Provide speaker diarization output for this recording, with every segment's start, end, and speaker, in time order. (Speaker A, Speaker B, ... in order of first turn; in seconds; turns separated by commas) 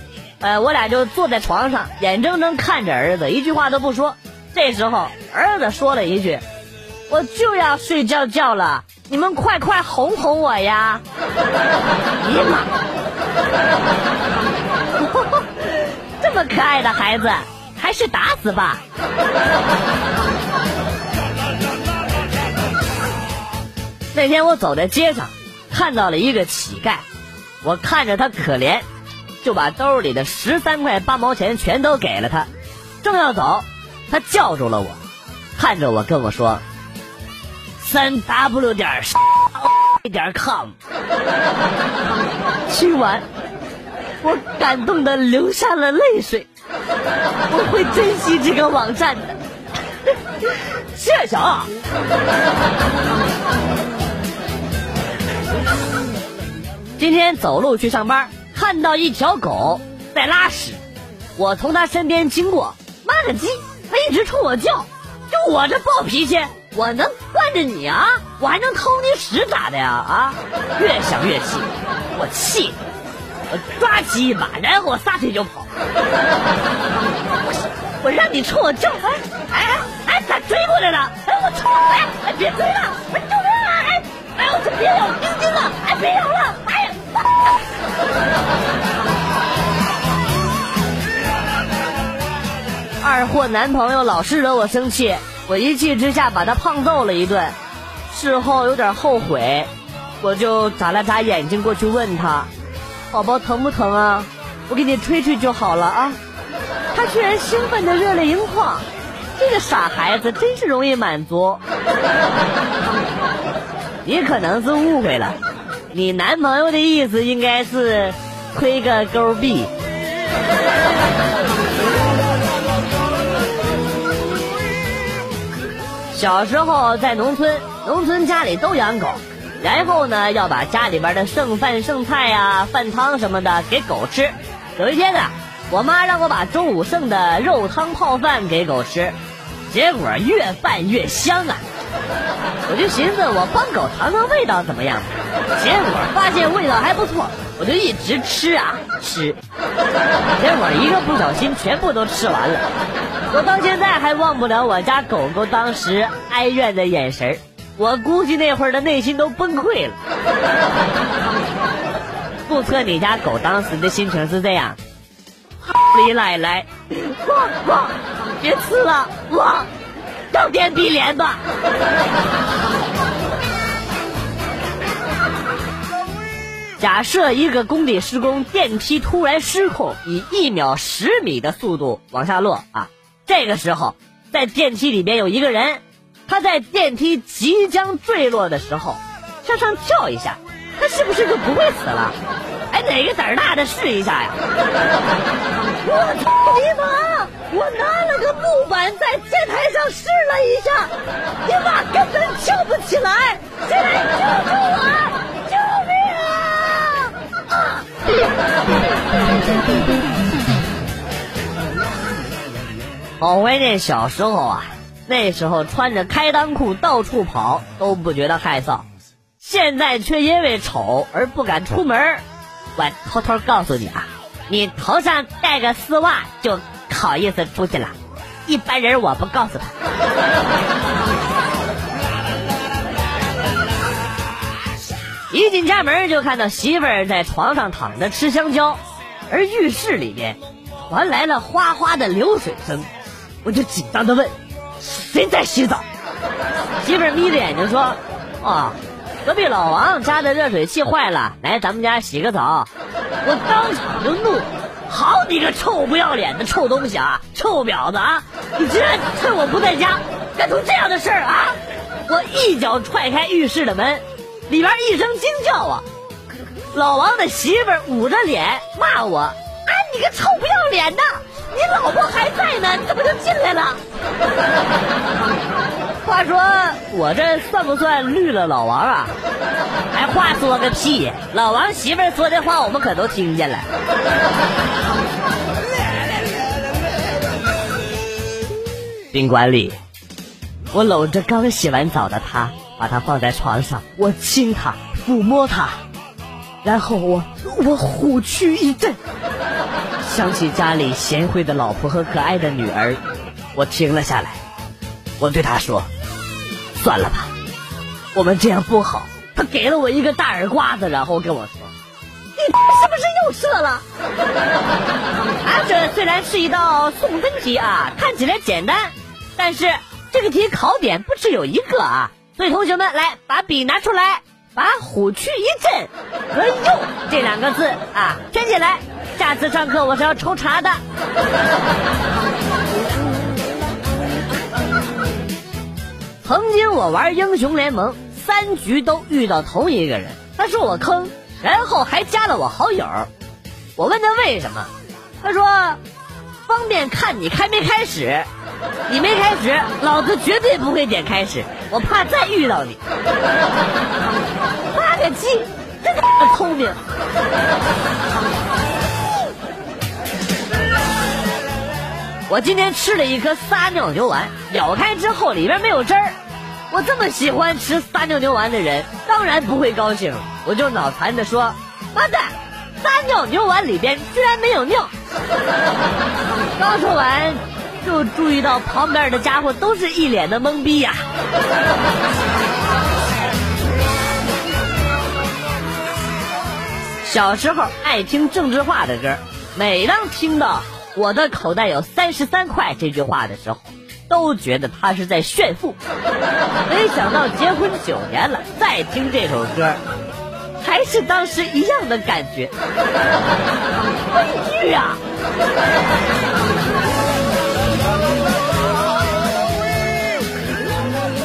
Speaker A: 0.4-6.4, Speaker A: 7.1-11.0, Speaker A: 12.2-12.7, Speaker A: 14.9-18.8, Speaker A: 24.1-27.0, Speaker A: 27.6-28.9, Speaker A: 29.4-32.5, Speaker A: 33.0-35.0, Speaker A: 35.5-36.6, Speaker A: 37.8-40.7, Speaker A: 42.7-43.2, Speaker A: 44.2-46.5, Speaker A: 47.5-49.4, Speaker A: 50.0-51.7, Speaker A: 57.0-60.8, Speaker A: 61.4-72.8, Speaker A: 73.5-75.7, Speaker A: 78.0-87.6, Speaker A: 93.0-97.5, Speaker A: 98.1-102.5, Speaker A: 103.1-106.2, Speaker A: 106.9-111.6, Speaker A: 114.0-115.4, Speaker A: 115.9-119.7, Speaker A: 126.1-139.2, Speaker A: 139.7-141.6, Speaker A: 142.6-149.4, Speaker A: 150.3-152.7, Speaker A: 153.3-160.0, Speaker A: 162.5-164.8, Speaker A: 165.6-169.7, Speaker A: 170.3-171.4, Speaker A: 176.8-192.2, Speaker A: 192.7-194.4, Speaker A: 195.8-200.9, Speaker A: 201.4-207.8, Speaker A: 213.2-218.8, Speaker A: 219.4-222.2, Speaker A: 222.8-229.7, Speaker A: 235.3-242.9, Speaker A: 243.4-245.8, Speaker A: 246.8-252.7, Speaker A: 253.2-265.8, Speaker A: 266.7-273.8, Speaker A: 276.0-279.1, Speaker A: 279.9-283.7, Speaker A: 289.1-289.8, Speaker A: 290.7-295.8, Speaker A: 296.6-299.0, Speaker A: 300.0-303.0, Speaker A: 303.5-304.4, Speaker A: 305.2-305.9, Speaker A: 306.8-307.3, Speaker A: 308.1-311.7, Speaker A: 312.4-313.8, Speaker A: 315.4-330.8, Speaker A: 336.2-343.1, Speaker A: 343.8-345.8, Speaker A: 346.4-348.3, Speaker A: 348.9-352.8, Speaker A: 354.7-356.8, Speaker A: 362.3-366.2, Speaker A: 366.7-374.9, Speaker A: 376.6-381.0, Speaker A: 387.0-395.8, Speaker A: 396.6-399.8, Speaker A: 400.6-402.5, Speaker A: 404.1-405.0